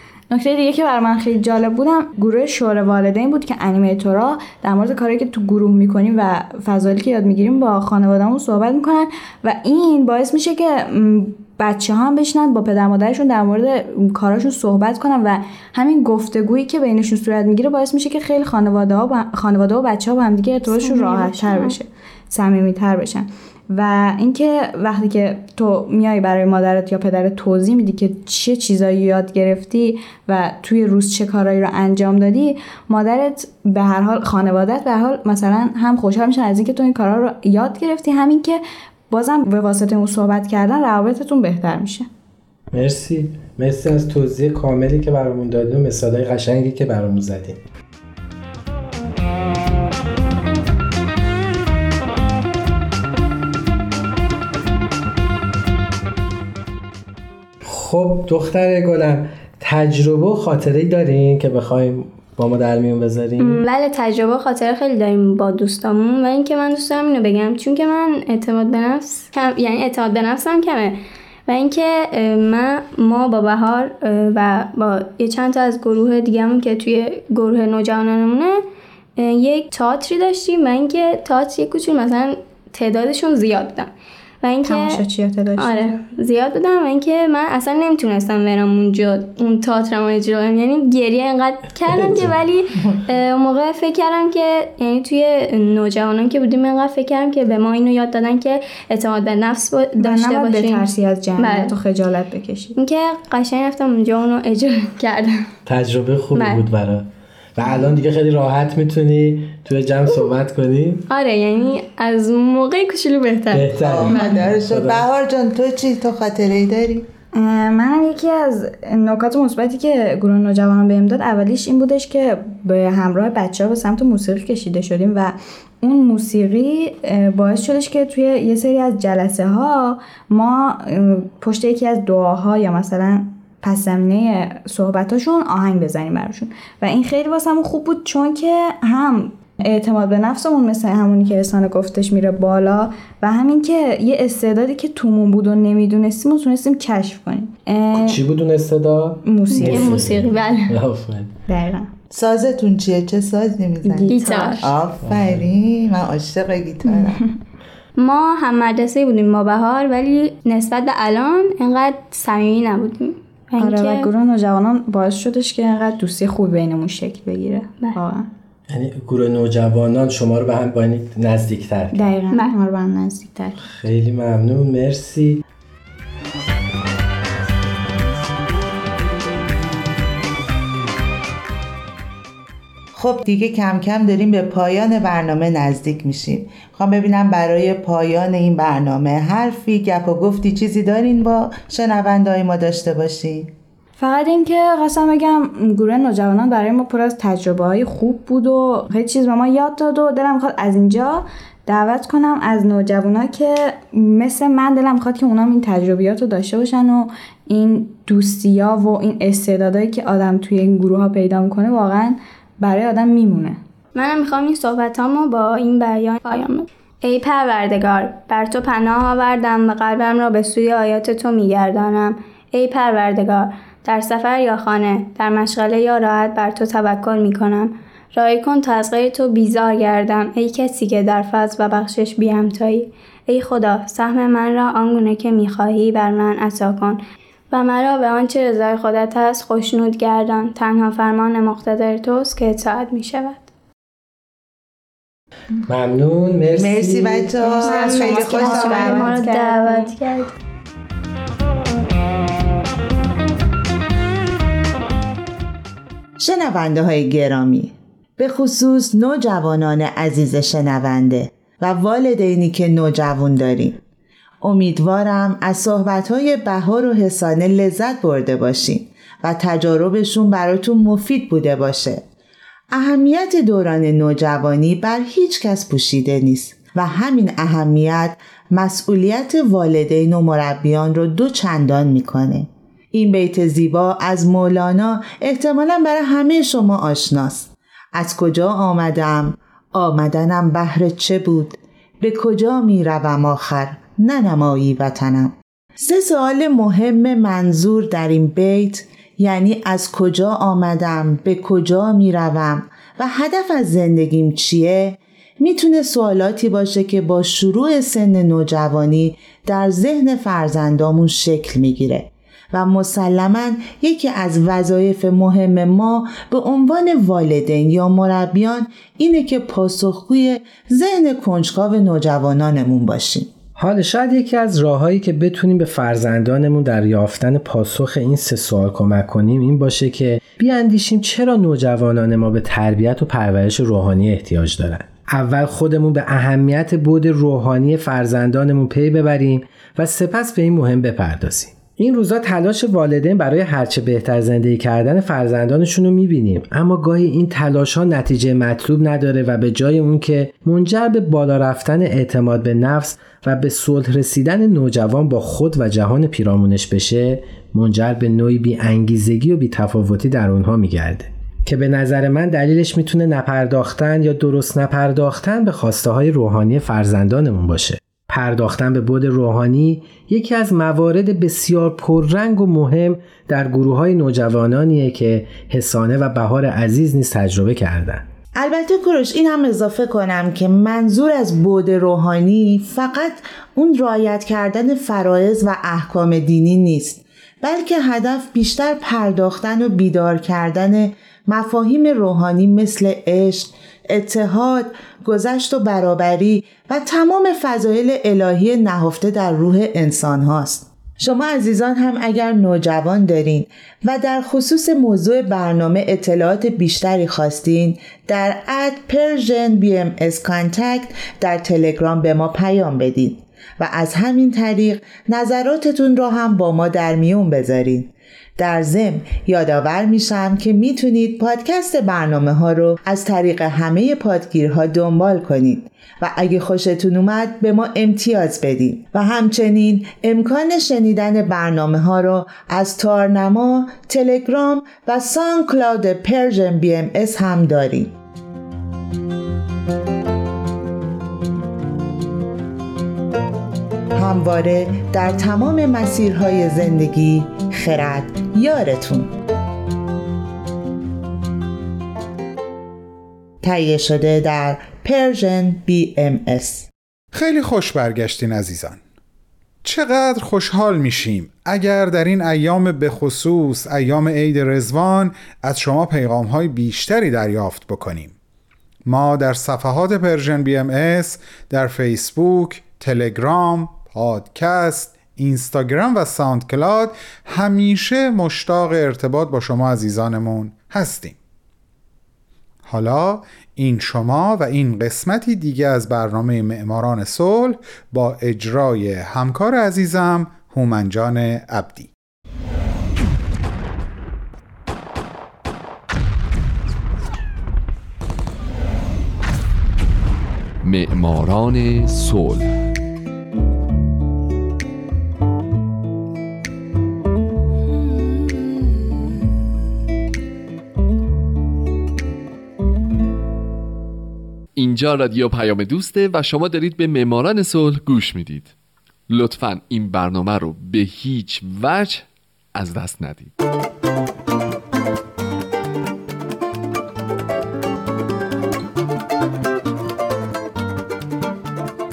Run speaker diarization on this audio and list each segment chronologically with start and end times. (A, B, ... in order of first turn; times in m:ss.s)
0:00.3-0:42.1 A
0:20.7-0:21.8 B
0:42.7-0:47.6 C
0:57.6-1:03.6 C
1:03.4-1:18.6 B
1:19.2-1:25.0 B
1:24.6-1:25.9 A
1:25.6-1:41.8 B
1:32.0-1:32.3 C
1:40.0-1:42.7 A
1:42.8-1:45.5 B
1:45.6-1:51.0 C
1:46.3-1:46.6 B
1:51.1-1:54.4 B
1:53.5-1:55.0 C
1:53.8-1:57.1 D
1:57.3-2:28.2 A
2:27.9-2:31.3 C
2:29.2-2:30.0 A
2:29.5-2:30.7 B
2:31.5-2:31.9 A
2:32.1-2:37.2 D
2:33.9-2:34.7 B
2:34.0-2:34.6 A
2:35.0-2:35.4 C
2:36.9-2:37.2 A
2:38.0-2:44.1 B
2:43.6-2:48.3 A
2:48.7-2:52.1 C
2:51.9-2:53.6 A
2:53.6-2:55.4 C
3:02.9-3:13.5 D
3:14.0-3:33.6 A
3:33.9-3:57.0 B
3:57.5-4:03.5 B
4:05.7-4:07.3 C
4:06.6-4:09.2 D
4:07.5-4:10.0 A
4:07.6-4:10.3 B
4:16.2-4:23.8 D
4:24.4-4:32.0 D
4:32.7-5:23.3 D
5:23.6-6:18.0 C
6:18.3-7:17.9 D
7:23.9-7:29.1 D
7:33.4-7:36.7 D
7:37.1-7:38.8 E
7:39.6-7:48.2 E
7:48.8-8:01.2 E
8:02.6-8:11.9 E
8:20.6-8:22.5 F
8:34.6-8:38.5 F
8:39.1-8:43.3 F